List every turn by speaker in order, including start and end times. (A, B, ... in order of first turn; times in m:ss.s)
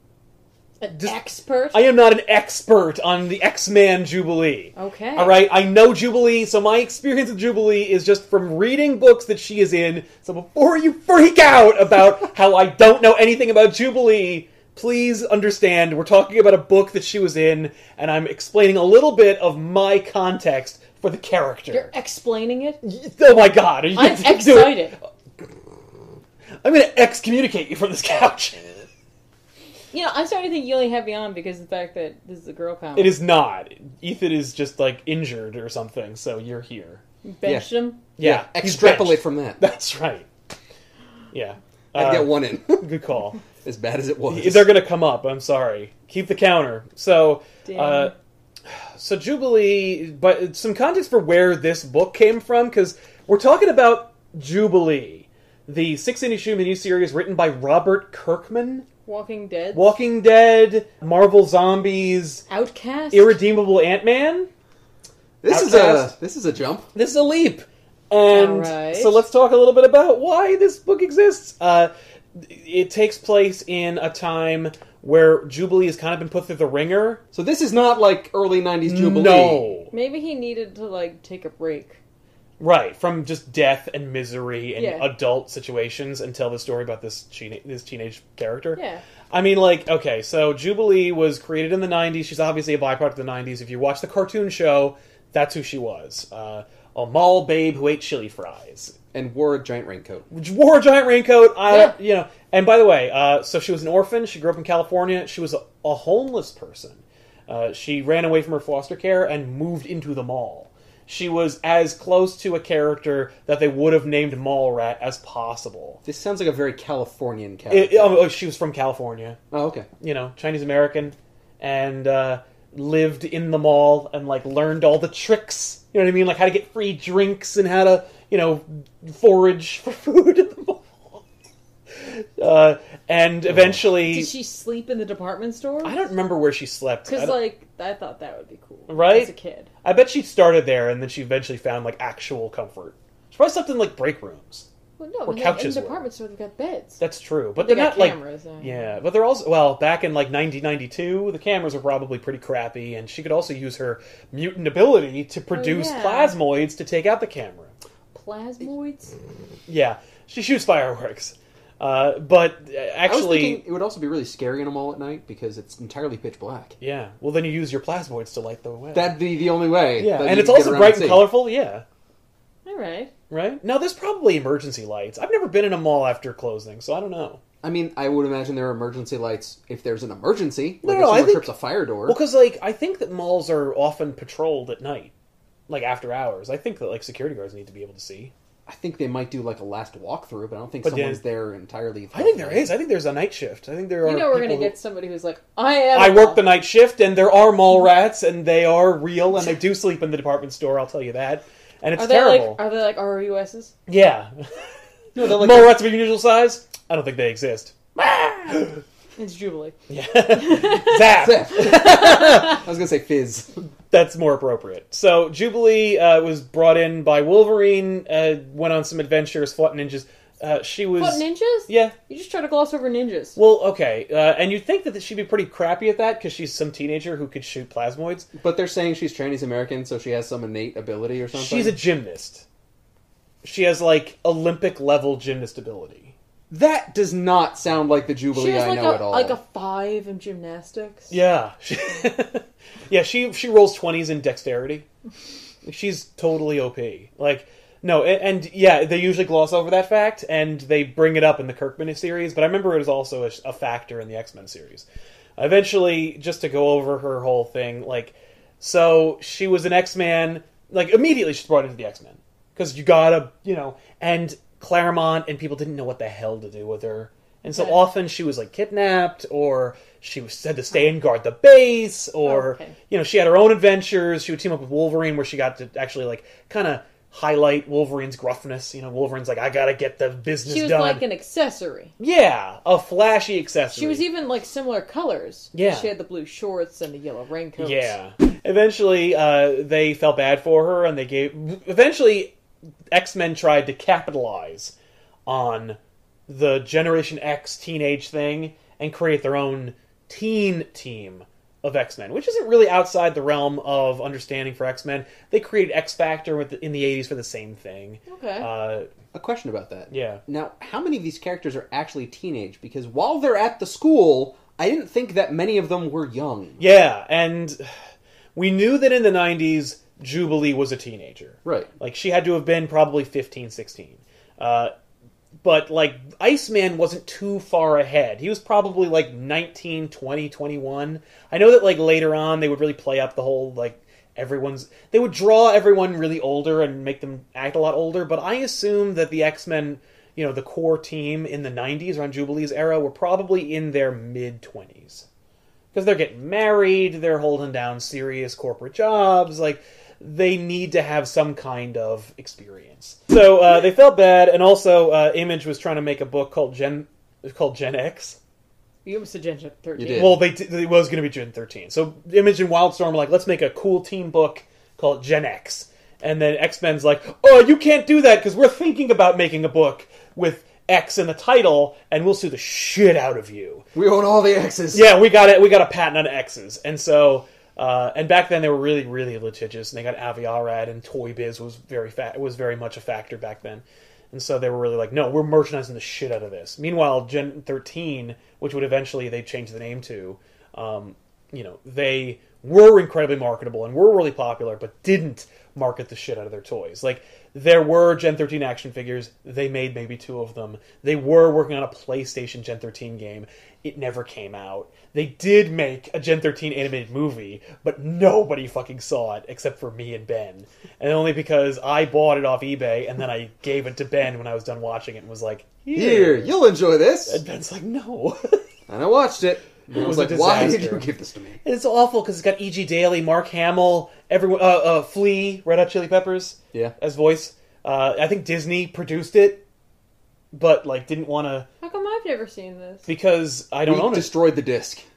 0:00.8-0:01.8 A
0:01.7-0:21.9 B
0:04.8-0:05.4 A
0:21.7-0:22.8 A
0:22.8-0:25.0 B
0:23.9-0:24.9 A
0:26.6-0:28.9 B
0:29.9-0:33.2 A
0:33.0-0:37.0 B
0:37.2-0:38.0 A
0:37.4-0:39.6 C
0:38.2-0:40.3 B
0:41.3-0:43.4 B
0:41.9-0:42.8 C
0:43.6-0:44.7 C
0:44.3-0:48.1 B
0:47.6-0:48.1 A
0:49.0-0:58.9 B
0:59.0-0:59.9 A
0:59.7-1:02.4 B
1:02.5-1:03.4 A
1:03.1-1:04.5 B
1:05.4-1:06.9 C
1:05.5-1:06.1 B
1:06.9-1:17.2 B
1:08.3-1:09.2 A
1:17.3-1:19.7 C
1:18.8-1:19.9 B
1:19.9-1:22.0 A
1:22.6-1:39.0 B
1:24.8-1:25.1 A
1:28.8-1:29.0 A
1:39.1-1:40.3 C
1:40.3-1:56.0 B
1:41.7-1:41.9 A
1:56.0-1:58.2 C
1:57.7-1:59.4 B
1:59.5-1:59.9 C
2:00.0-2:11.2 B
2:11.9-2:14.3 B
2:14.0-2:16.1 A
2:15.8-2:17.4 B
2:17.1-2:19.7 A
2:18.9-2:19.3 B
2:19.8-2:24.7 B
2:25.0-2:27.0 A
2:25.2-2:26.1 B
2:27.0-2:37.7 B
2:27.6-2:28.8 A
2:35.5-2:36.4 A
2:38.1-2:39.2 A
2:39.7-2:43.6 B
2:43.0-2:46.8 C
2:46.8-2:49.2 B
2:48.9-2:51.3 C
2:50.0-2:51.8 B
2:52.6-2:53.1 A
2:53.3-2:57.4 B
2:57.6-3:02.2 C
3:00.8-3:01.5 B
3:02.0-3:05.1 B
3:05.7-3:08.3 B
3:08.7-3:12.7 C
3:10.8-3:11.2 B
3:12.1-3:14.7 B
3:14.0-3:16.4 A
3:15.9-3:22.6 B
3:21.9-3:23.7 A
3:23.9-3:24.5 B
3:25.1-3:25.8 C
3:25.2-3:28.8 B
3:29.2-3:29.8 A
3:29.9-3:32.6 B
3:30.4-3:30.9 A
3:31.2-3:33.6 C
3:31.6-3:32.4 A
3:33.9-3:42.0 B
3:41.0-3:43.4 A
3:43.4-3:48.3 B
3:48.4-3:51.8 C
3:51.3-3:52.4 B
3:53.4-3:56.1 B
3:56.5-3:59.4 C
3:58.3-4:01.1 A
4:01.1-4:04.9 B
4:05.6-4:14.8 B
4:15.4-4:41.0 B
4:32.2-4:32.7 A
4:40.5-4:41.9 A
4:42.0-4:44.0 B
4:43.7-4:47.9 A
4:45.5-4:45.9 B
4:47.6-4:52.3 B
4:52.9-4:54.7 B
4:55.2-5:08.9 B
5:08.1-5:08.5 A
5:09.1-5:16.6 C
5:09.9-5:10.2 B
5:16.6-5:17.7 B
5:18.3-5:24.7 B
5:21.4-5:21.7 C
5:25.4-5:45.0 B
5:45.7-5:58.2 B
5:58.8-6:00.2 A
5:59.8-6:00.2 C
5:59.9-6:13.6 B
6:13.7-6:14.9 C
6:14.7-6:56.3 B
6:55.7-6:57.2 C
6:57.1-6:58.4 B
6:58.7-7:01.4 C
6:59.7-7:00.9 B
7:01.4-7:09.4 B
7:10.3-7:11.5 B
7:11.6-7:12.9 A
7:12.8-7:14.1 B
7:13.7-7:14.8 C